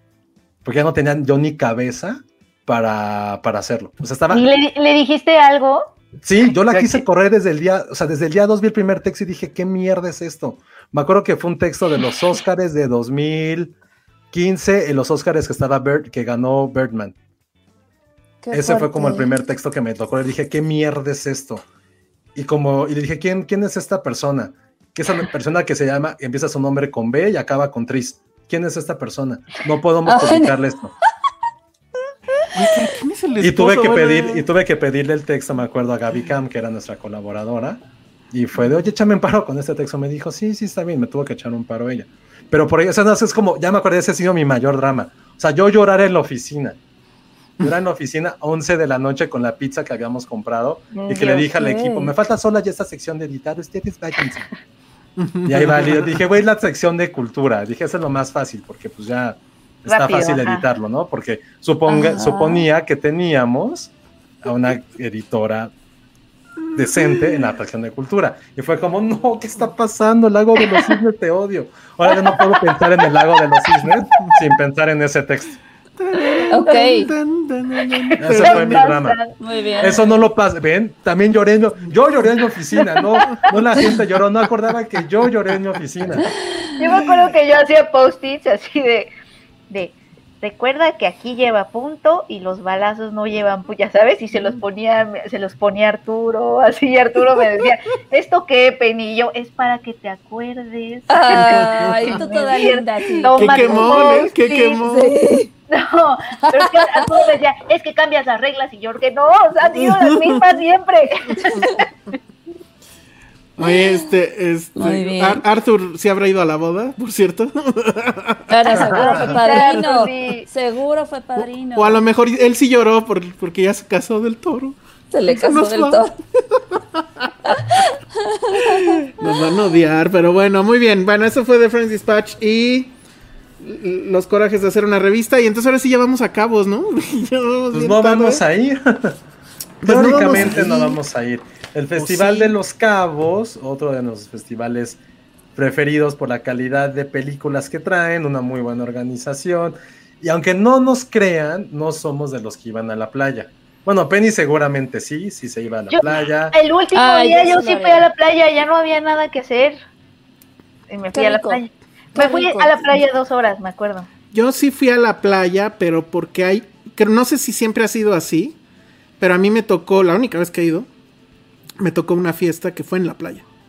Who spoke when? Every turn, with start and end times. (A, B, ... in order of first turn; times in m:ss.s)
0:00.6-0:04.4 A
0:04.3-0:05.9 B
0:06.2-0:13.7 A
0:06.7-0:07.0 B
0:14.3-0:17.1 A
0:18.4-0:19.3 C
0:18.5-0:21.6 A
0:22.3-0:30.9 A
0:30.0-0:30.6 C
0:32.5-0:34.5 D
0:33.4-0:37.8 A
0:38.3-0:46.8 A
0:47.6-0:54.5 A
0:50.9-0:51.5 B
0:51.6-0:52.1 C
0:55.2-0:56.2 D
0:55.4-1:03.9 A
0:59.8-1:00.6 B
1:01.9-1:02.6 C
1:04.4-1:05.7 A
1:06.7-1:15.6 A
1:07.0-1:07.4 D
1:16.0-1:18.9 D
1:16.5-1:17.1 C
1:17.9-1:19.3 B
1:18.2-1:19.2 A
1:19.4-1:20.2 C
1:19.8-1:26.3 A
1:22.9-1:23.6 B
1:26.8-1:29.1 B
1:26.9-1:27.2 D
1:29.7-1:44.4 B
1:41.1-1:45.5 C
1:41.8-1:42.3 D
1:43.3-1:45.2 D
1:45.7-1:51.8 B
1:46.5-1:47.3 C
1:49.8-1:50.4 D
1:53.6-1:58.5 D
1:54.8-1:55.4 C
1:58.5-2:02.0 C
1:58.7-2:00.5 B
1:58.8-1:59.3 A
2:01.8-2:04.8 D
2:05.1-2:06.1 C
2:05.3-2:06.0 D
2:06.5-2:07.8 D
2:07.5-2:08.9 C
2:08.6-2:12.9 D
2:13.6-2:18.4 D
2:17.7-2:19.2 A
2:19.8-2:21.0 D
2:19.8-2:25.0 A
2:22.0-2:22.5 D
2:25.5-2:36.5 A
2:35.9-2:39.8 B
2:36.9-2:38.1 C
2:40.9-2:44.1 B
2:41.1-2:41.6 C
2:42.2-2:43.0 C
2:44.3-2:48.6 D
2:49.2-2:50.9 D
2:51.8-2:53.4 D